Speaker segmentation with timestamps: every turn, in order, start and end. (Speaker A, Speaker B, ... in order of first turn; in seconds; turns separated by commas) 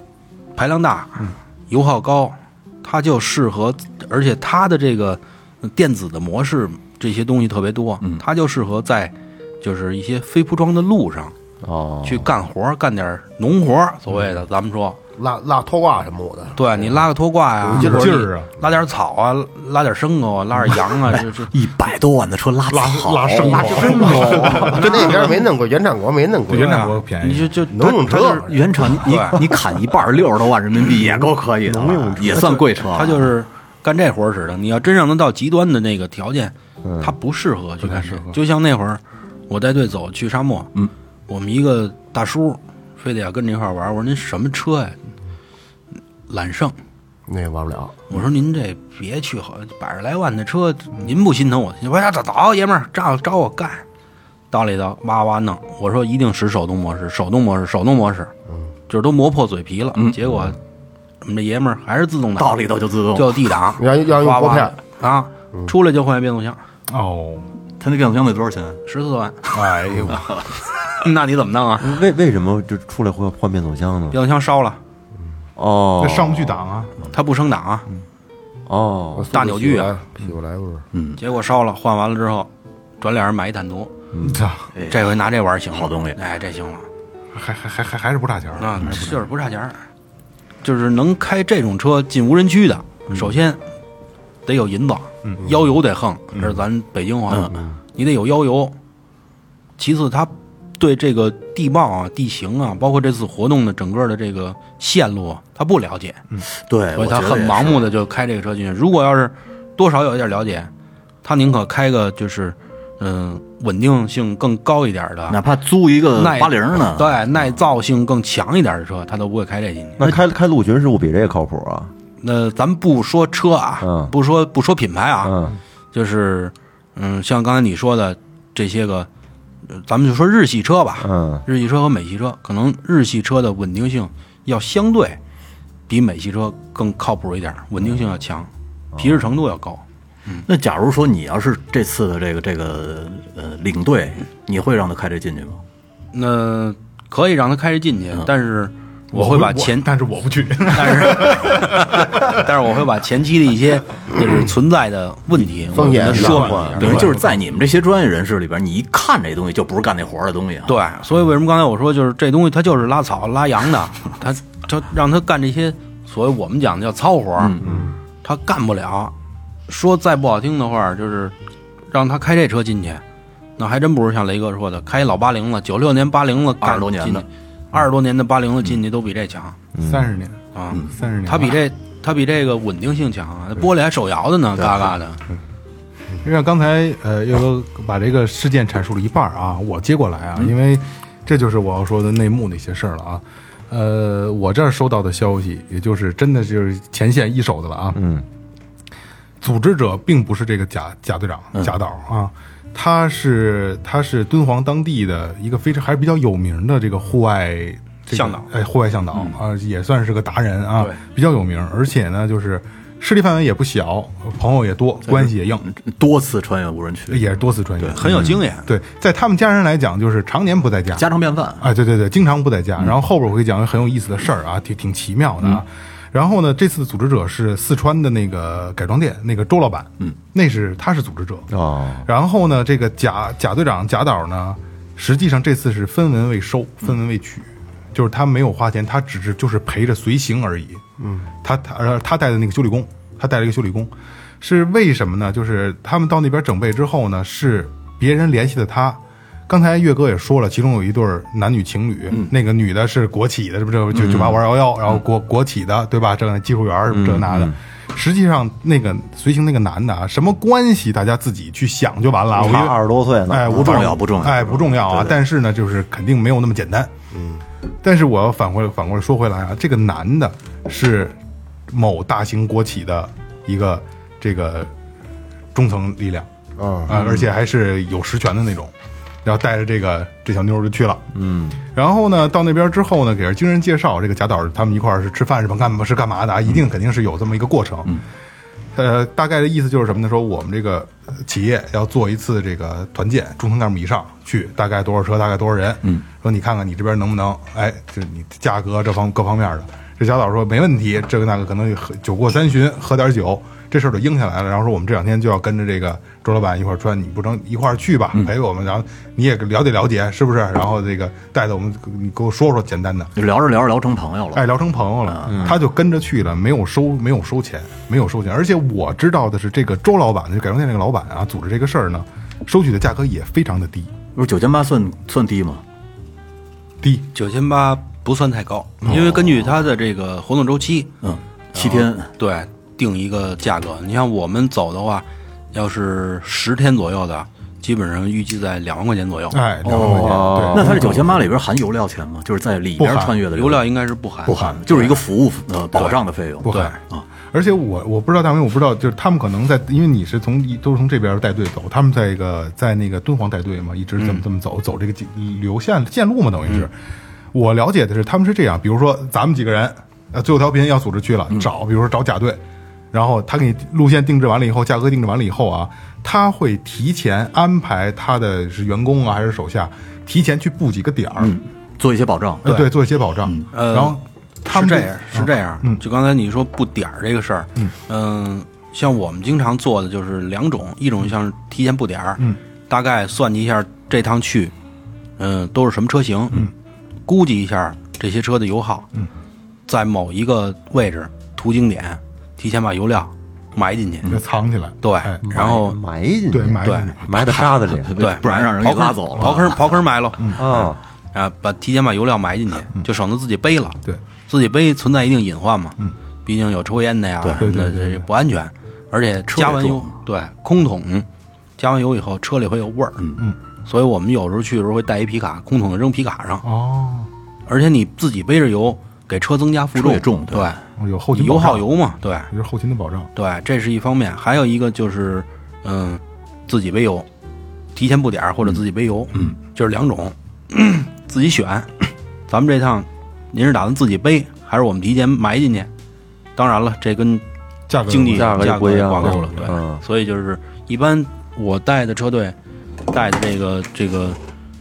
Speaker A: 0.5-11.3, Speaker B: 11.6-12.3, Speaker A: 12.0-15.0, Speaker C: 15.2-16.6, Speaker A: 16.6-21.5, Speaker D: 17.7-18.5, Speaker E: 21.1-25.1, Speaker D: 22.7-25.4, Speaker B: 23.5-24.8, Speaker C: 23.7-26.7, Speaker A: 24.5-25.2, Speaker D: 26.5-27.6, Speaker A: 26.5-28.1, Speaker C: 27.7-29.0, Speaker E: 27.8-33.3, Speaker A: 28.8-29.4, Speaker B: 31.6-32.5, Speaker A: 32.2-40.7, Speaker B: 36.8-37.1, Speaker D: 37.8-38.4, Speaker A: 41.3-45.0, Speaker A: 46.3-46.7, Speaker C: 47.3-47.9, Speaker A: 48.1-53.8, Speaker A: 54.5-58.3, Speaker A: 58.9-60.6, Speaker A: 61.2-62.6, Speaker E: 62.4-63.4, Speaker A: 63.1-66.6, Speaker C: 63.8-64.7, Speaker D: 66.9-67.5, Speaker E: 67.8-68.8, Speaker A: 68.8-69.6, Speaker D: 69.5-70.3, Speaker A: 71.0-72.0, Speaker B: 71.8-74.2, Speaker A: 74.1-74.8, Speaker B: 75.5-76.6, Speaker D: 76.0-76.9, Speaker A: 77.0-77.8, Speaker B: 78.7-79.3, Speaker C: 79.2-80.8, Speaker A: 79.3-79.9, Speaker E: 80.9-81.2, Speaker A: 81.2-82.5, Speaker A: 83.0-83.9, Speaker B: 84.1-84.4, Speaker D: 84.2-84.7, Speaker E: 84.7-85.2, Speaker A: 84.9-86.9, Speaker E: 85.7-86.2, Speaker D: 87.3-89.2, Speaker A: 88.6-89.8, Speaker A: 90.6-93.6, Speaker A: 94.5-98.7, Speaker D: 95.2-95.5, Speaker A: 99.8-106.2, Speaker E: 106.5-107.9, Speaker A: 107.0-110.7, Speaker A: 111.2-115.4, Speaker E: 115.3-117.1, Speaker A: 116.2-120.0, Speaker B: 120.0-121.9, Speaker A: 122.2-125.3, Speaker B: 123.8-124.1, Speaker B: 125.2-125.5, Speaker A: 125.9-129.1, Speaker A: 129.7-135.2, Speaker B: 131.0-131.4, Speaker A: 135.9-140.4, Speaker E: 140.4-145.6, Speaker A: 146.1-149.9, Speaker D: 149.1-152.5, Speaker A: 150.7-157.2, Speaker C: 155.7-157.0, Speaker E: 155.8-160.7, Speaker D: 156.1-157.3, Speaker A: 160.7-167.5, Speaker E: 167.4-167.7, Speaker B: 167.6-167.9, Speaker A: 168.2-169.1, Speaker A: 169.7-171.3, Speaker A: 171.9-173.0, Speaker A: 173.6-179.6, Speaker E: 176.6-177.2, Speaker B: 179.7-180.1, Speaker D: 179.8-181.6, Speaker A: 180.5-185.2, Speaker E: 184.6-184.9, Speaker D: 186.2-198.0, Speaker B: 197.9-198.2, Speaker D: 199.4-215.6, Speaker A: 208.1-208.5, Speaker E: 215.1-217.2, Speaker D: 217.1-221.1, Speaker A: 217.9-218.7, Speaker E: 220.9-221.7, Speaker D: 221.6-231.5, Speaker B: 231.5-232.0, Speaker D: 232.0-240.8, Speaker C: 241.0-241.3, Speaker D: 241.4-262.8, Speaker E: 253.9-254.4, Speaker B: 256.9-257.5, Speaker B: 262.4-264.0, Speaker D: 263.3-266.9, Speaker E: 263.5-265.1, Speaker C: 267.1-267.4, Speaker D: 267.8-271.2, Speaker D: 271.7-274.7, Speaker D: 275.5-276.3, Speaker C: 276.6-276.9, Speaker D: 276.9-278.7, Speaker D: 279.2-281.1, Speaker B: 281.1-281.6, Speaker D: 281.6-288.0, Speaker D: 288.7-313.1, Speaker E: 313.1-314.4, Speaker D: 314.3-323.9, Speaker E: 315.1-315.5, Speaker B: 315.3-315.6, Speaker E: 324.1-325.6, Speaker A: 327.1-330.9, Speaker E: 328.9-329.5, Speaker E: 331.0-332.1, Speaker A: 331.5-339.4, Speaker D: 339.3-341.0, Speaker E: 339.6-343.6, Speaker B: 339.8-341.0, Speaker D: 342.8-343.2, Speaker A: 343.3-345.0, Speaker E: 344.2-347.1, Speaker D: 344.3-344.6, Speaker D: 346.4-356.7, Speaker A: 354.0-354.2, Speaker D: 357.3-362.4, Speaker D: 362.9-371.4, Speaker E: 371.2-372.4, Speaker D: 372.4-375.8, Speaker A: 372.4-372.7, Speaker A: 373.5-384.5, Speaker A: 385.2-386.4, Speaker A: 387.1-388.9, Speaker A: 389.7-394.1, Speaker D: 394.1-395.3, Speaker A: 394.8-395.8, Speaker B: 395.2-397.9, Speaker D: 396.3-397.0, Speaker A: 396.6-396.9, Speaker E: 397.1-399.6, Speaker A: 398.0-400.4, Speaker D: 400.2-400.7, Speaker B: 400.4-400.8, Speaker A: 401.1-411.1, Speaker D: 407.4-408.1, Speaker E: 409.3-409.9, Speaker A: 411.6-413.0, Speaker A: 413.6-416.4, Speaker D: 416.4-417.1, Speaker A: 417.5-420.6, Speaker E: 419.7-420.6, Speaker D: 420.8-421.7, Speaker A: 421.1-422.3, Speaker D: 422.3-423.1, Speaker A: 423.1-427.1, Speaker A: 427.7-435.7, Speaker A: 436.4-437.2, Speaker D: 437.7-439.5, Speaker A: 437.9-442.4, Speaker B: 438.1-439.8, Speaker A: 442.9-444.2